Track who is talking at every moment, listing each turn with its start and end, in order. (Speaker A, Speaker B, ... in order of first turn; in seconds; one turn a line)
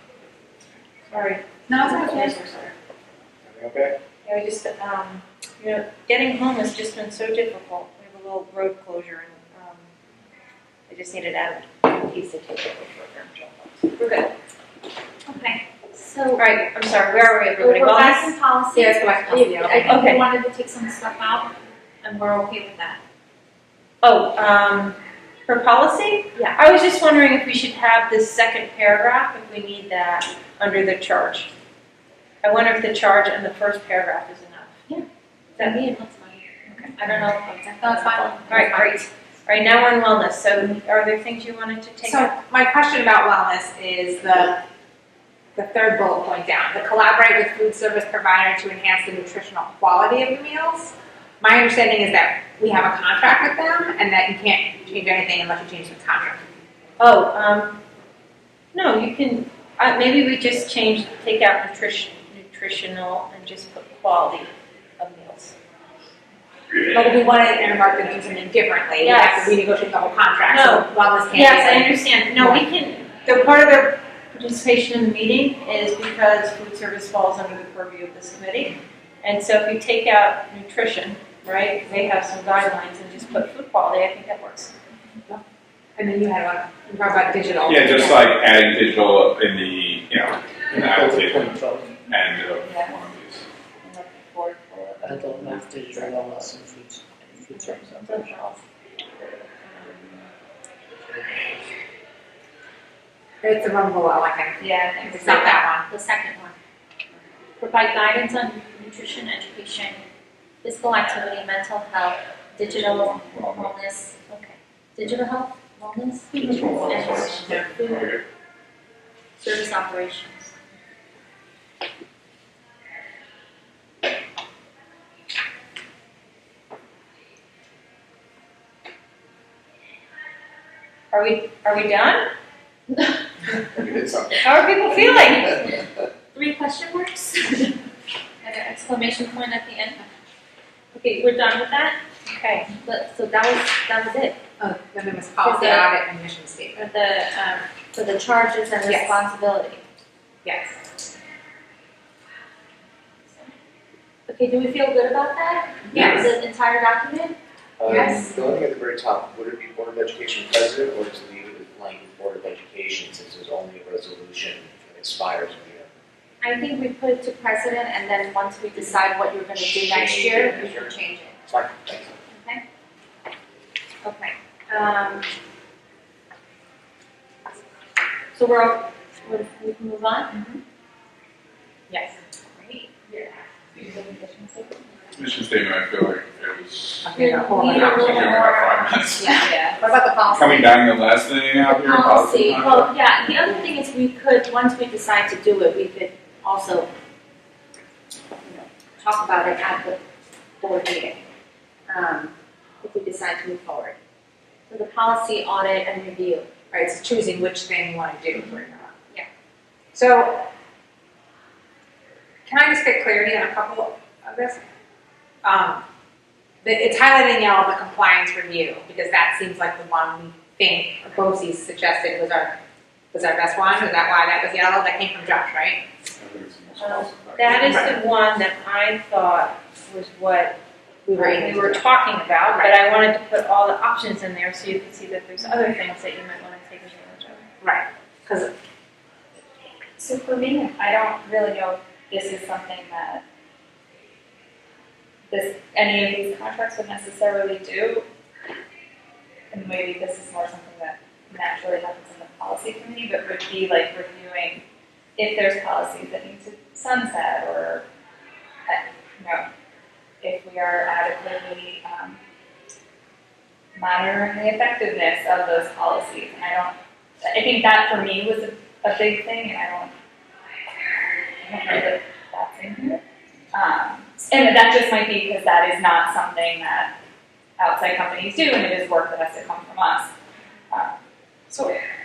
Speaker A: 1.1-2.7
Speaker B: 1.7-2.5
Speaker A: 4.2-9.9
Speaker A: 10.9-14.3
Speaker C: 15.3-16.5
Speaker A: 16.4-18.4
Speaker C: 17.6-23.0
Speaker B: 18.7-20.1
Speaker A: 19.8-20.2
Speaker A: 24.0-31.5
Speaker A: 32.4-34.8
Speaker C: 34.9-38.9
Speaker B: 37.8-39.0
Speaker A: 38.5-42.3
Speaker B: 42.0-44.6
Speaker B: 45.5-56.4
Speaker A: 57.0-57.8
Speaker A: 58.7-65.5
Speaker B: 66.9-72.6
Speaker A: 69.0-69.6
Speaker A: 70.5-84.7
Speaker B: 86.0-88.5
Speaker D: 87.7-93.4
Speaker E: 90.9-91.8
Speaker F: 94.3-96.2
Speaker E: 95.0-98.3
Speaker C: 97.5-98.6
Speaker C: 99.6-100.1
Speaker B: 103.4-105.9
Speaker C: 104.8-106.5
Speaker C: 107.6-110.0
Speaker C: 110.6-118.0
Speaker D: 112.6-113.7
Speaker D: 116.3-118.2
Speaker B: 116.8-117.3
Speaker C: 119.4-120.5
Speaker A: 131.1-132.3
Speaker D: 133.8-134.3
Speaker A: 134.4-135.6
Speaker C: 134.9-137.8
Speaker C: 138.4-140.0
Speaker C: 140.9-142.0
Speaker A: 142.3-142.7
Speaker C: 142.7-144.4
Speaker B: 144.6-146.9
Speaker C: 145.4-145.9
Speaker C: 146.7-149.8
Speaker B: 148.8-149.2
Speaker B: 150.4-150.8
Speaker C: 154.3-157.4
Speaker B: 155.9-156.2
Speaker D: 155.9-156.2
Speaker G: 157.8-165.9
Speaker C: 158.0-158.3
Speaker C: 166.4-171.4
Speaker G: 169.6-170.9
Speaker G: 171.5-172.1
Speaker C: 172.3-172.6
Speaker C: 174.0-175.3
Speaker C: 178.3-180.4
Speaker B: 181.9-182.2
Speaker C: 182.4-184.9
Speaker D: 185.1-187.1
Speaker B: 187.0-188.4
Speaker C: 187.1-189.0
Speaker D: 187.7-189.5
Speaker B: 189.2-190.7
Speaker D: 190.3-192.9
Speaker C: 191.8-196.9
Speaker C: 198.4-200.0
Speaker C: 200.6-201.3
Speaker C: 201.9-204.0
Speaker C: 204.7-206.5
Speaker B: 206.7-208.9
Speaker B: 209.9-210.5
Speaker B: 212.4-214.6
Speaker B: 215.4-215.8
Speaker B: 216.6-222.6
Speaker B: 223.1-225.8
Speaker D: 226.2-228.0
Speaker A: 226.8-230.6
Speaker B: 227.6-228.0
Speaker B: 231.1-231.8
Speaker A: 231.1-237.4
Speaker B: 232.5-232.8
Speaker B: 237.6-238.5
Speaker F: 240.0-243.2
Speaker F: 245.3-248.1
Speaker F: 249.5-254.6
Speaker F: 255.2-257.9
Speaker F: 258.7-259.5
Speaker F: 260.2-262.2
Speaker F: 263.8-269.9
Speaker F: 271.4-273.0
Speaker F: 273.5-276.9
Speaker F: 277.6-280.1
Speaker F: 280.7-281.0
Speaker B: 281.5-281.8